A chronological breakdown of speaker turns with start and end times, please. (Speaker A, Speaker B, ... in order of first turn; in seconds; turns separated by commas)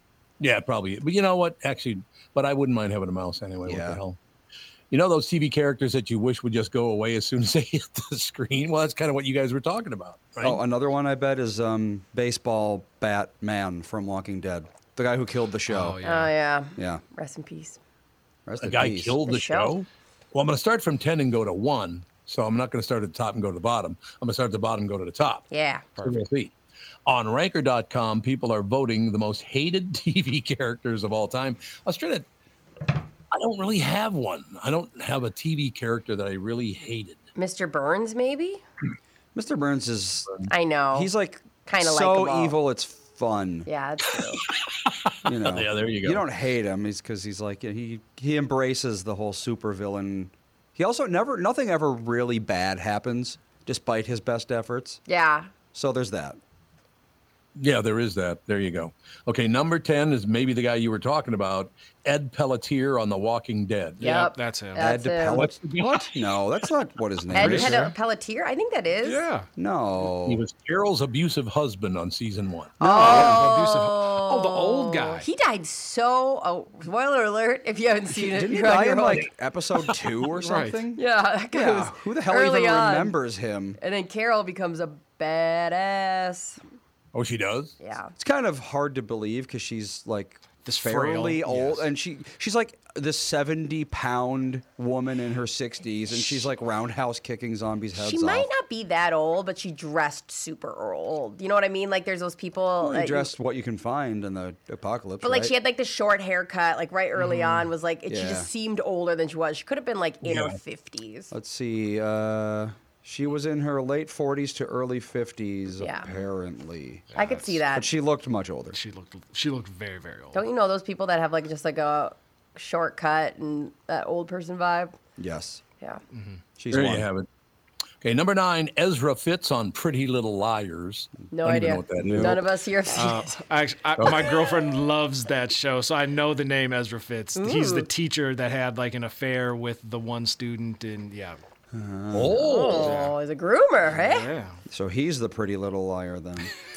Speaker A: 0.4-4.2, Speaker B: 3.6-4.0, Speaker A: 4.9-10.6, Speaker B: 10.4-16.0, Speaker C: 15.7-16.3, Speaker D: 16.0-17.8, Speaker B: 16.8-17.0, Speaker B: 18.4-19.2, Speaker A: 18.6-25.4, Speaker D: 19.2-19.7, Speaker D: 25.5-25.9, Speaker A: 26.0-26.5, Speaker A: 27.1-32.2, Speaker A: 33.3-37.2, Speaker D: 37.4-38.6, Speaker B: 39.3-40.3, Speaker D: 40.5-41.1, Speaker B: 40.9-43.7, Speaker D: 41.6-42.6, Speaker D: 43.7-44.4, Speaker A: 44.9-46.2, Speaker B: 45.2-55.0, Speaker D: 55.1-55.5, Speaker B: 55.7-56.4, Speaker A: 57.5-64.0, Speaker C: 64.0-64.9, Speaker D: 64.0-65.4, Speaker B: 64.8-67.9, Speaker A: 65.3-66.1, Speaker D: 67.3-69.2, Speaker C: 67.3-67.9, Speaker C: 69.0-69.5, Speaker B: 69.6-70.4, Speaker A: 70.2-72.7, Speaker D: 72.8-79.2, Speaker B: 72.8-73.4, Speaker C: 72.8-75.3, Speaker B: 78.2-83.8, Speaker C: 80.4-80.8, Speaker D: 81.0-83.1, Speaker D: 83.8-86.6, Speaker A: 87.1-87.8, Speaker D: 87.8-88.1, Speaker B: 88.2-98.5, Speaker C: 90.6-91.9, Speaker D: 98.0-103.3, Speaker B: 102.8-105.5, Speaker D: 105.2-111.3, Speaker C: 107.2-107.7, Speaker B: 108.1-108.5, Speaker A: 110.2-110.5, Speaker B: 111.3-118.8, Speaker D: 115.8-116.1, Speaker C: 117.1-117.5, Speaker D: 117.1-117.9, Speaker C: 118.7-120.4, Speaker D: 120.3-125.0, Speaker B: 125.2-125.6, Speaker C: 126.1-126.4, Speaker B: 126.6-127.1, Speaker A: 126.7-127.3, Speaker A: 128.0-132.4, Speaker D: 131.3-133.4, Speaker B: 131.9-132.4, Speaker C: 132.9-141.4, Speaker A: 134.0-134.3, Speaker D: 137.3-137.9, Speaker B: 141.7-142.5, Speaker A: 142.1-142.9, Speaker D: 142.4-144.3, Speaker C: 142.8-143.1, Speaker C: 143.9-144.6, Speaker B: 144.7-146.5